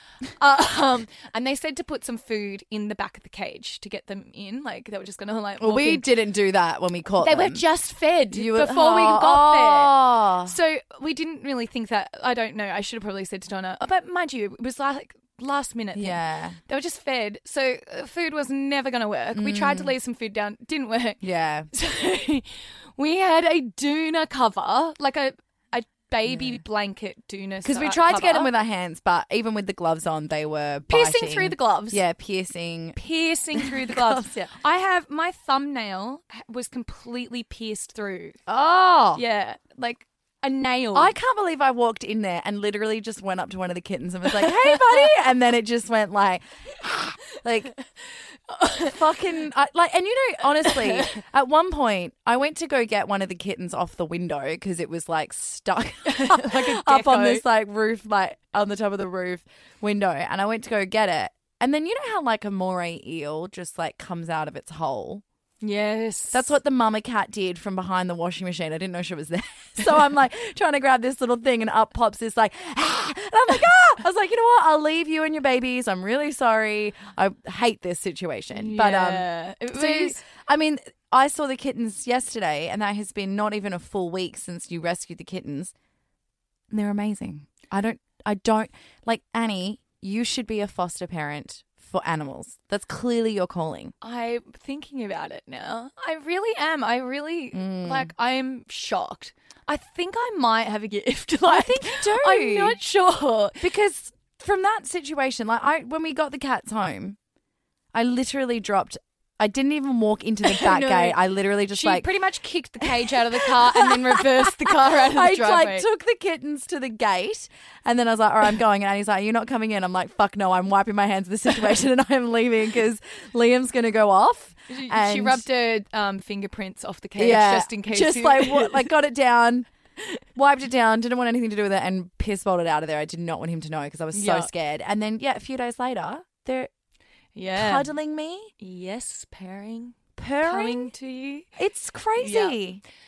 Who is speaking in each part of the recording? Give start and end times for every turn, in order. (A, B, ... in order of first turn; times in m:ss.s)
0:00.3-0:06.1 A
0:05.6-0:07.6 B
0:07.2-0:28.5 A
0:08.3-0:10.6 B
0:16.0-0:16.6 B
0:19.3-0:19.9 B
0:21.2-0:21.7 B
0:26.3-0:26.6 B
0:27.6-0:33.0 B
0:30.9-0:32.0 A
0:33.0-0:38.4 A
0:33.6-0:34.4 B
0:38.5-0:39.2 B
0:39.2-0:41.1 A
0:40.9-0:47.7 B
0:48.5-0:49.0 A
0:48.8-1:05.2 B
0:50.6-0:51.2 A
0:56.0-0:57.4 A
1:05.6-1:06.5 A
1:06.3-1:25.7 B
1:18.5-1:20.2 A
1:26.7-1:33.9 B
1:34.0-1:43.7 A
1:37.5-1:38.1 B
1:41.5-1:42.8 B
1:43.6-1:47.2 B
1:47.9-1:52.1 B
1:50.4-1:55.9 A
1:52.8-2:05.4 B
2:04.7-2:08.9 A
2:07.2-2:09.7 B
2:10.4-2:16.7 B
2:14.1-2:14.5 A
2:17.4-2:17.9 A
2:17.5-2:18.5 B
2:18.6-2:21.5 A
2:20.2-2:20.9 B
2:21.6-2:22.8 B
2:22.2-2:22.6 A